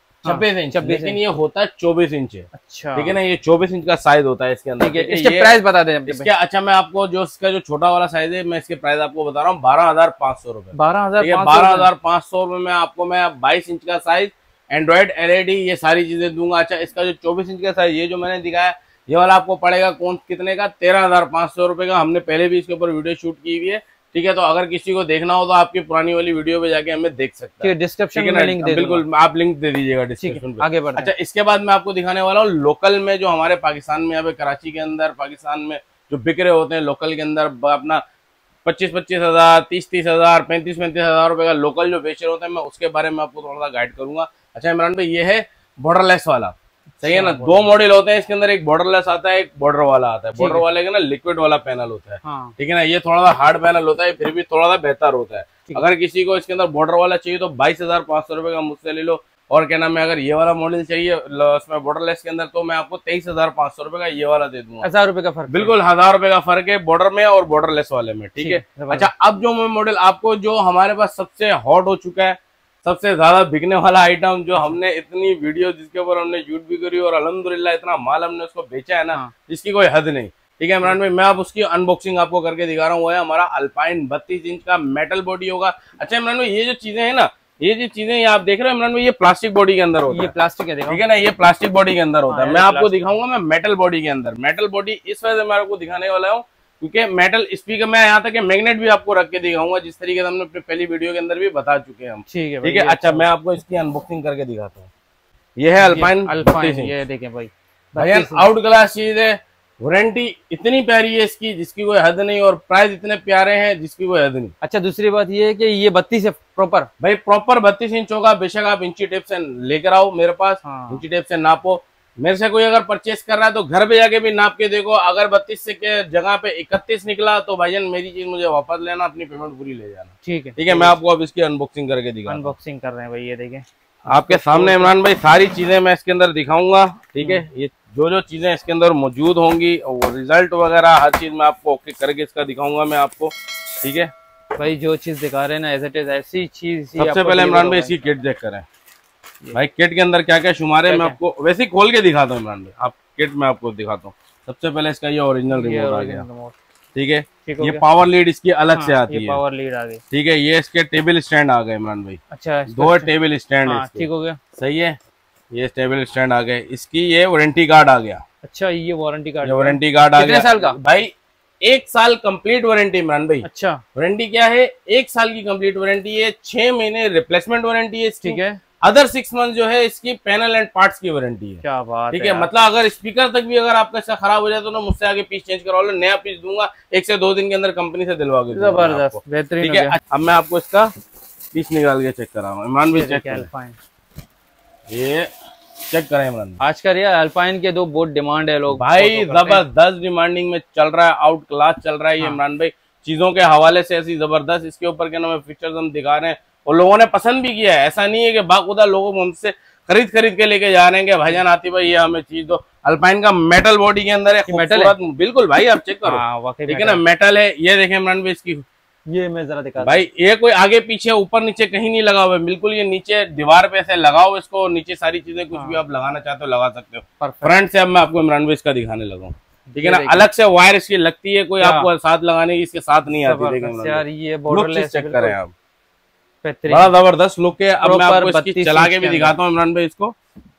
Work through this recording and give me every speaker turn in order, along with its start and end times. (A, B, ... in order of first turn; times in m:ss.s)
0:00.2-0:01.2 A
0:00.2-0:38.0 B
0:02.5-0:03.1 A
0:04.8-0:06.3 A
0:10.7-0:11.9 A
0:27.6-0:29.0 A
0:30.2-0:31.1 A
0:38.6-1:04.9 B
0:47.0-0:47.7 A
0:50.4-0:50.6 A
0:52.2-0:52.5 A
1:04.8-1:05.7 A
1:05.5-1:30.3 B
1:08.4-1:09.1 A
1:30.1-1:31.0 A
1:30.9-1:44.9 B
1:32.3-1:33.0 A
1:42.3-1:43.2 A
1:45.6-1:46.9 B
1:45.8-1:48.4 A
1:48.0-1:54.5 B
1:54.6-1:56.9 A
1:57.0-2:12.5 B
2:00.6-2:01.0 A
2:10.2-2:11.0 A
2:12.3-2:14.9 A
2:14.1-2:24.1 B
2:24.6-2:27.9 A
2:27.0-2:28.6 B
2:29.5-2:36.2 B
2:30.8-2:31.2 A
2:35.5-2:36.6 A
2:36.9-2:39.4 B
2:37.4-2:37.8 A
2:38.7-2:40.0 A
2:40.1-2:44.9 B
2:42.3-2:43.1 A
2:43.6-2:44.4 A
2:45.5-2:48.2 B
2:48.4-2:50.8 A
2:49.4-3:10.9 B
2:53.4-2:53.8 A
2:58.2-2:58.6 A
3:01.6-3:02.5 A
3:08.5-3:10.0 A
3:11.5-3:13.5 B
3:12.9-3:13.8 A
3:14.9-3:15.3 B
3:15.9-3:16.6 B
3:16.6-3:19.6 A
3:18.8-3:38.6 B
3:34.5-3:34.9 A
3:36.0-3:37.0 A
3:39.1-3:40.0 A
3:39.8-3:55.5 B
3:47.2-3:47.5 A
3:49.7-3:50.3 A
3:51.6-3:51.9 A
3:53.2-3:55.4 A
3:56.4-3:56.9 A
3:56.7-4:00.1 B
3:57.8-3:59.3 A